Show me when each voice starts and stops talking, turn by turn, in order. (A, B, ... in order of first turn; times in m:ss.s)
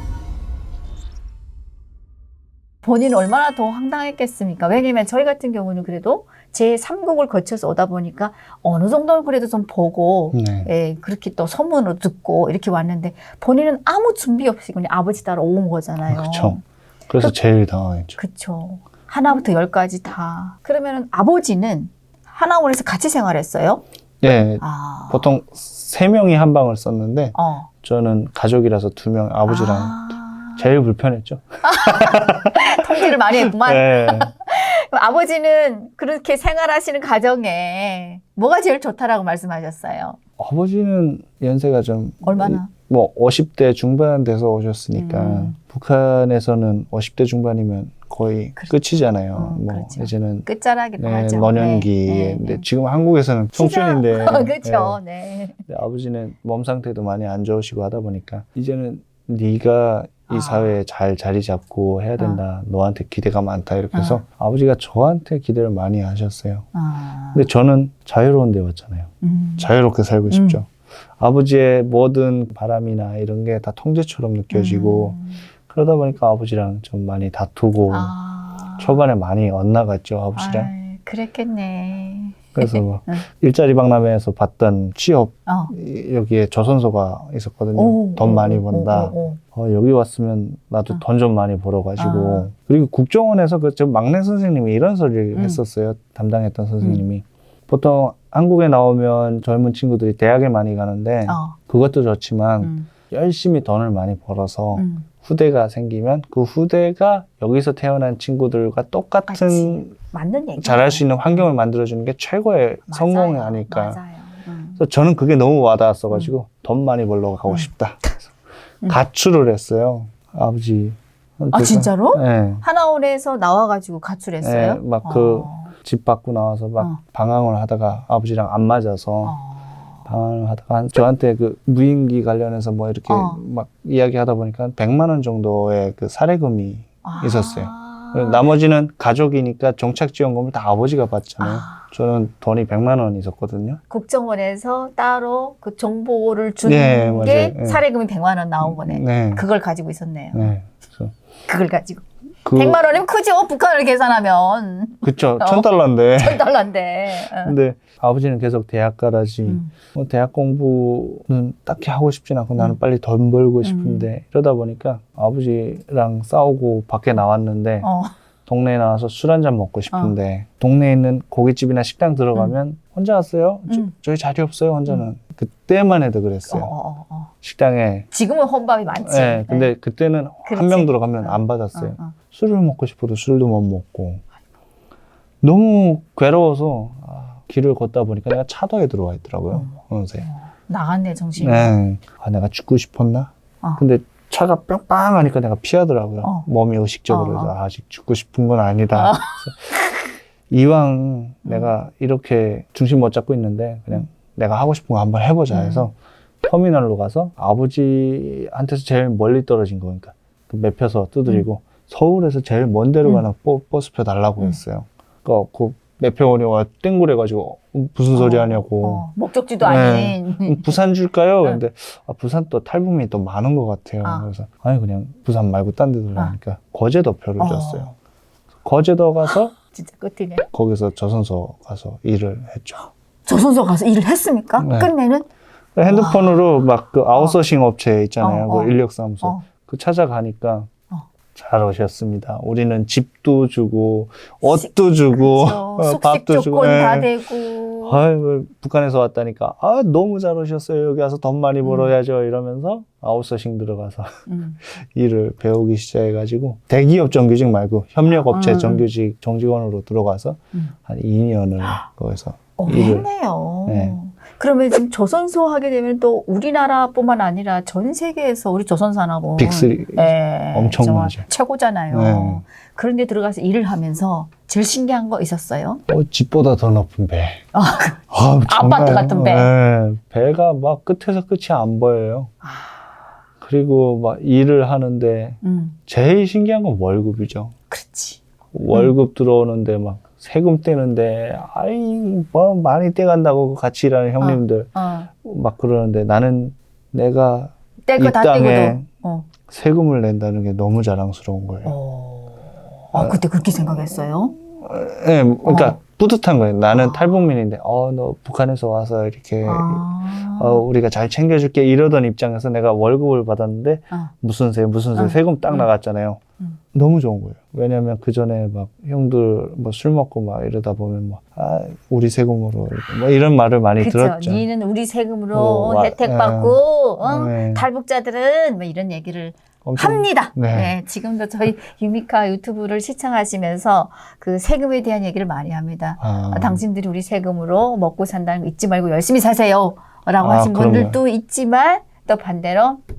0:02.8-0:16.6 A
0:10.3-0:10.7 B
0:16.1-0:18.2 B
0:18.2-0:23.8 A
0:24.2-0:34.3 B
0:24.6-0:25.3 A
0:27.4-0:27.7 A
0:29.5-0:30.6 A
0:31.6-0:40.2 A
0:40.4-0:50.5 B
0:42.2-0:42.7 A
0:45.0-0:45.6 A
0:48.6-0:52.6 A
0:51.0-0:55.0 B
0:53.6-0:55.6 A
0:55.7-1:06.7 B
1:00.3-1:00.8 A
1:03.9-1:04.2 A
1:06.8-1:07.5 A
1:07.3-1:18.1 B
1:09.2-1:09.7 A
1:10.3-1:10.6 A
1:14.5-1:15.4 A
1:17.9-1:19.0 A
1:18.8-1:20.7 B
1:20.3-1:23.2 A
1:22.6-1:50.0 B
1:25.5-1:25.7 A
1:27.8-1:29.4 A
1:32.0-1:32.5 A
1:35.3-1:35.6 A
1:41.3-1:41.6 A
1:42.6-1:42.9 A
1:44.7-1:45.1 A
1:49.3-1:51.1 A
1:50.6-1:54.0 B
1:52.9-1:54.8 A
1:54.8-1:58.2 B
1:58.8-2:02.6 B
2:01.5-2:05.7 A
2:04.4-2:09.4 B
2:09.2-2:10.0 A
2:10.1-2:23.8 B
2:13.1-2:13.4 A
2:17.0-2:18.5 A
2:21.4-2:21.8 A
2:23.9-2:30.5 A
2:26.6-2:27.8 B
2:28.6-2:29.4 B
2:30.3-2:31.1 B
2:31.5-2:35.7 A
2:32.4-2:32.8 B
2:35.0-2:36.4 B
2:36.2-2:37.5 A
2:37.2-2:47.9 B
2:39.4-2:39.7 A
2:43.6-2:44.1 A
2:47.8-2:48.1 A
2:48.5-2:56.7 B
2:49.9-2:50.2 A
2:53.7-2:53.9 A
2:56.5-2:57.3 A
2:57.4-2:58.1 B
2:58.1-2:59.7 A
2:59.0-3:04.2 B
3:00.4-3:02.2 A
3:05.4-3:10.3 B
3:09.5-3:11.8 A
3:11.4-3:19.8 B
3:16.2-3:16.5 A
3:17.1-3:17.5 A
3:19.0-3:19.4 A
3:20.5-3:39.0 B
3:21.4-3:21.7 A
3:25.5-3:25.9 A
3:38.1-3:40.8 A
3:39.6-3:47.9 B
3:44.0-3:44.3 A
3:47.4-3:47.9 A
3:48.6-3:49.5 B
3:49.6-3:50.5 A
3:50.5-3:52.9 B
3:53.3-3:55.3 A
3:54.6-3:54.9 B
3:55.8-4:00.7 B
3:55.8-3:56.4 A
3:58.2-3:59.5 A
4:01.4-4:07.2 B
4:04.5-4:08.0 A
4:07.8-4:23.1 B
4:11.6-4:11.9 A
4:14.3-4:14.6 A
4:18.3-4:18.8 A
4:22.6-4:35.8 A
4:23.7-4:24.0 B
4:29.4-4:31.2 B
4:31.9-4:32.4 B
4:35.9-4:37.4 B
4:37.5-4:39.5 A
4:38.1-4:42.3 B
4:42.4-4:42.8 A
4:43.4-4:47.5 B
4:45.4-4:45.8 A
4:47.7-4:48.2 A
4:48.5-4:58.9 B
4:54.2-4:55.1 A
4:57.9-4:59.3 A
4:59.5-5:01.7 B
5:01.6-5:04.4 A
5:02.9-5:03.2 B
5:04.6-5:16.2 B
5:05.4-5:05.8 A
5:06.7-5:07.1 A
5:09.4-5:10.6 A
5:15.0-5:15.7 A
5:16.7-5:24.5 B
5:23.8-5:42.8 A
5:25.3-5:27.7 B
5:29.6-5:30.8 B
5:36.0-5:36.6 B
5:40.2-5:41.0 B